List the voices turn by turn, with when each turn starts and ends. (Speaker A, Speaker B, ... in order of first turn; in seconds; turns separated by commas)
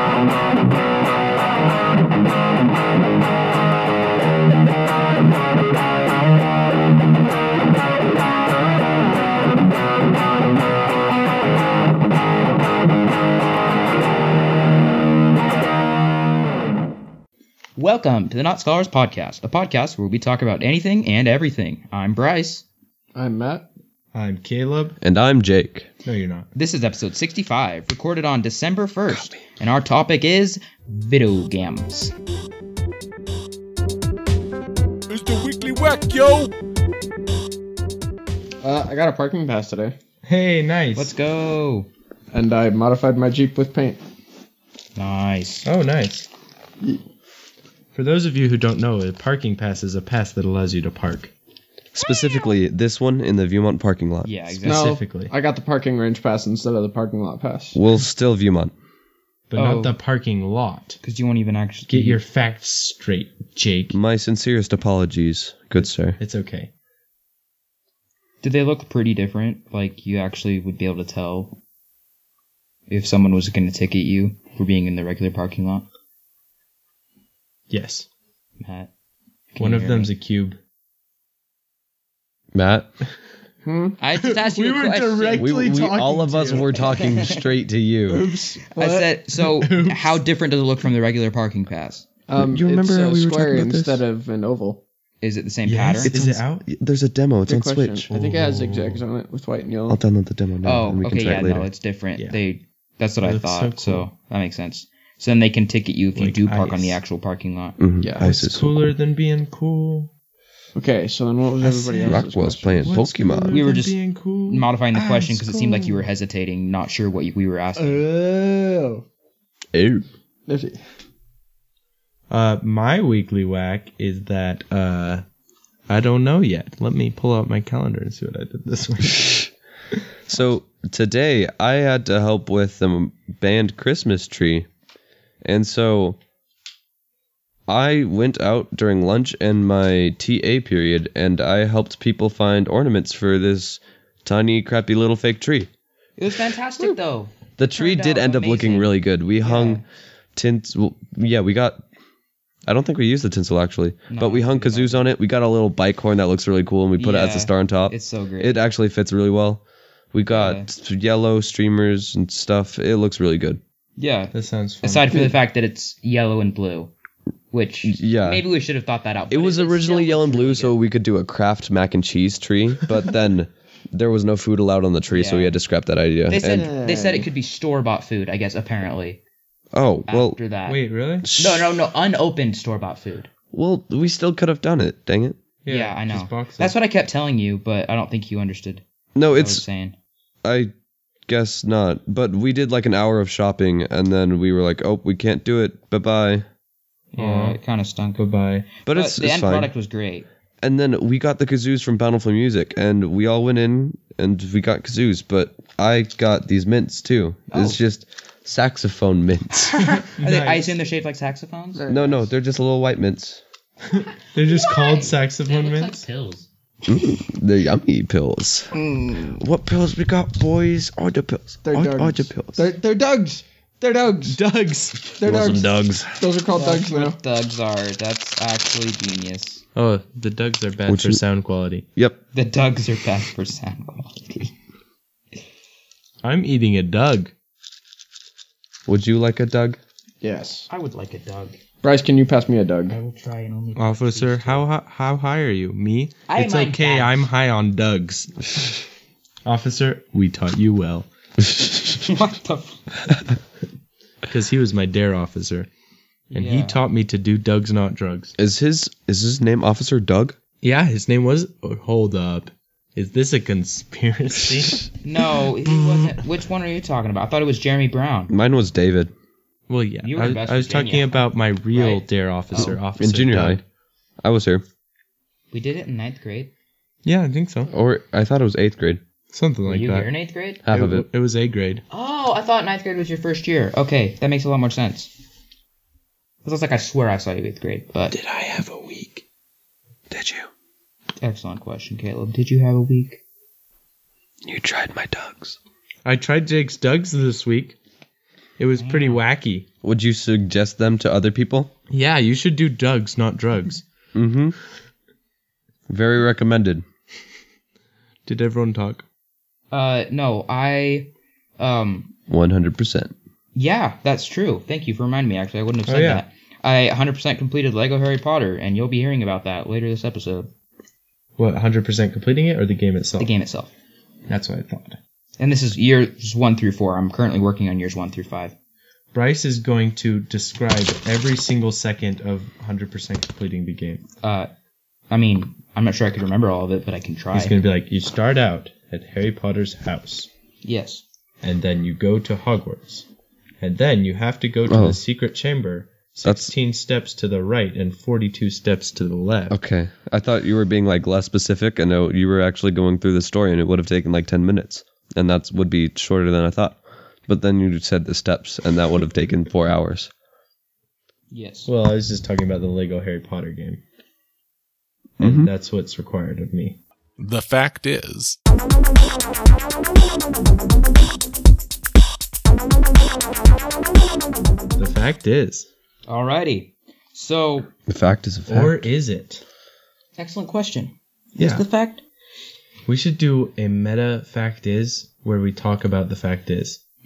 Speaker A: 17.8-22.6, Speaker B: 23.1-23.7, Speaker C: 24.1-25.0, Speaker D: 25.0-25.9, Speaker C: 26.0-26.5, Speaker A: 26.5-32.1, Speaker E: 35.1-36.5, Speaker B: 38.6-39.9, Speaker C: 40.2-41.1, Speaker A: 40.9-41.9, Speaker B: 42.3-44.0, Speaker A: 44.9-45.7, Speaker C: 45.6-46.3, Speaker C: 47.9-51.3, Speaker D: 51.9-54.3, Speaker A: 54.2-55.0, Speaker C: 54.6-55.3, Speaker B: 54.6-57.8, Speaker D: 57.7-58.7, Speaker C: 59.5-61.0, Speaker A: 59.5-60.0, Speaker A: 61.0-62.2, Speaker C: 61.9-64.0, Speaker D: 63.9-66.2, Speaker C: 65.8-66.7, Speaker A: 68.4-71.6, Speaker A: 72.9-75.8, Speaker C: 77.7-78.1, Speaker A: 78.6-78.9, Speaker A: 79.5-80.1, Speaker C: 79.6-80.6, Speaker D: 82.5-82.9, Speaker B: 83.7-84.0, Speaker A: 84.0-85.5, Speaker C: 84.2-86.8, Speaker D: 85.4-88.2, Speaker A: 86.8-87.4, Speaker B: 88.1-89.1, Speaker A: 88.7-92.0, Speaker C: 89.4-90.2, Speaker B: 92.3-94.8, Speaker D: 92.3-94.0, Speaker A: 95.2-96.1, Speaker C: 95.6-96.7, Speaker D: 96.0-98.1, Speaker B: 97.5-100.0, Speaker C: 98.1-99.0, Speaker D: 99.9-101.7, Speaker A: 100.6-107.8, Speaker C: 103.2-104.1, Speaker C: 106.1-107.0, Speaker D: 107.8-108.7, Speaker B: 108.0-108.3, Speaker C: 108.2-110.1, Speaker B: 110.8-113.0, Speaker C: 111.6-112.2, Speaker D: 112.0-113.5, Speaker C: 112.8-116.1, Speaker A: 113.5-118.0, Speaker B: 117.8-119.0, Speaker D: 119.7-120.0, Speaker B: 120.5-120.8, Speaker C: 122.3-125.2, Speaker C: 125.9-129.5, Speaker D: 130.3-134.7, Speaker D: 135.4-136.2, Speaker D: 137.7-145.7, Speaker A: 146.2-149.8, Speaker D: 147.6-149.8, Speaker D: 150.3-151.8, Speaker D: 152.7-159.6, Speaker A: 154.1-155.0, Speaker A: 157.0-158.6, Speaker D: 160.1-163.6, Speaker A: 160.3-160.7, Speaker A: 164.0-166.9, Speaker C: 164.3-165.3, Speaker A: 167.5-170.7, Speaker D: 167.8-168.4, Speaker D: 169.3-176.7, Speaker A: 175.1-175.5, Speaker A: 176.3-179.2, Speaker B: 176.5-177.3, Speaker D: 179.7-180.4, Speaker A: 180.1-183.3, Speaker C: 180.7-181.3, Speaker D: 181.2-181.7, Speaker D: 183.5-185.4, Speaker C: 185.6-186.7, Speaker A: 185.7-189.9, Speaker D: 189.2-189.6, Speaker D: 190.4-190.7, Speaker D: 191.3-196.4, Speaker A: 197.1-198.2, Speaker C: 197.2-197.6, Speaker C: 198.2-198.7, Speaker D: 198.8-199.7, Speaker A: 198.9-200.3, Speaker D: 200.6-209.8, Speaker A: 207.5-207.8, Speaker A: 209.6-211.9, Speaker C: 210.2-210.8, Speaker B: 211.7-212.2, Speaker D: 211.9-213.4, Speaker C: 213.9-216.1, Speaker A: 214.3-216.5, Speaker D: 216.9-222.7, Speaker B: 221.6-224.4, Speaker C: 224.3-225.2, Speaker B: 225.2-227.2, Speaker D: 225.2-226.2, Speaker A: 226.5-229.6, Speaker C: 229.7-231.8, Speaker D: 230.9-231.2, Speaker A: 232.3-234.5, Speaker C: 236.2-237.3, Speaker D: 238.9-239.8, Speaker B: 240.2-240.7, Speaker A: 240.7-241.6, Speaker B: 241.8-243.0, Speaker A: 242.9-244.7, Speaker C: 243.8-248.4, Speaker A: 246.3-247.2, Speaker C: 249.4-251.1, Speaker A: 252.0-253.0, Speaker C: 254.3-255.7, Speaker A: 256.3-256.8, Speaker C: 256.3-258.4, Speaker D: 258.4-260.4, Speaker C: 260.6-264.8, Speaker A: 265.0-268.3, Speaker D: 268.3-269.1, Speaker C: 269.7-273.6, Speaker A: 270.0-272.8, Speaker D: 272.7-273.6, Speaker D: 274.2-274.6, Speaker A: 275.5-276.5, Speaker C: 277.0-277.7, Speaker D: 277.7-279.0, Speaker C: 279.3-280.1, Speaker A: 279.6-280.6, Speaker D: 280.6-281.1, Speaker C: 280.7-281.8, Speaker A: 281.9-285.1, Speaker A: 286.4-288.1, Speaker C: 288.1-289.2, Speaker D: 290.1-290.5, Speaker A: 291.2-293.2, Speaker D: 294.4-295.6, Speaker C: 296.0-297.8, Speaker C: 298.6-299.7, Speaker A: 298.8-299.2, Speaker D: 299.8-301.7, Speaker C: 301.9-303.8, Speaker D: 304.1-304.5, Speaker D: 305.9-306.8, Speaker C: 308.2-309.0, Speaker A: 309.7-312.1, Speaker D: 312.3-313.1, Speaker A: 313.5-320.5, Speaker C: 315.9-316.2, Speaker C: 321.4-323.3, Speaker A: 323.2-323.7, Speaker C: 324.3-325.0, Speaker A: 325.4-328.5, Speaker C: 329.1-334.0, Speaker A: 334.2-334.5, Speaker A: 335.1-337.6, Speaker C: 337.3-340.3, Speaker A: 340.6-341.0, Speaker C: 341.4-343.1, Speaker C: 343.6-349.6, Speaker D: 344.7-345.0, Speaker D: 346.2-346.5, Speaker D: 349.5-360.1, Speaker A: 361.3-361.7, Speaker C: 361.6-363.8, Speaker C: 365.2-366.8, Speaker D: 365.2-365.5, Speaker E: 367.2-368.4, Speaker C: 374.8-375.7, Speaker A: 376.1-377.7, Speaker D: 377.9-378.9, Speaker C: 378.5-379.4, Speaker A: 380.2-382.0, Speaker C: 381.4-381.6, Speaker C: 382.9-386.8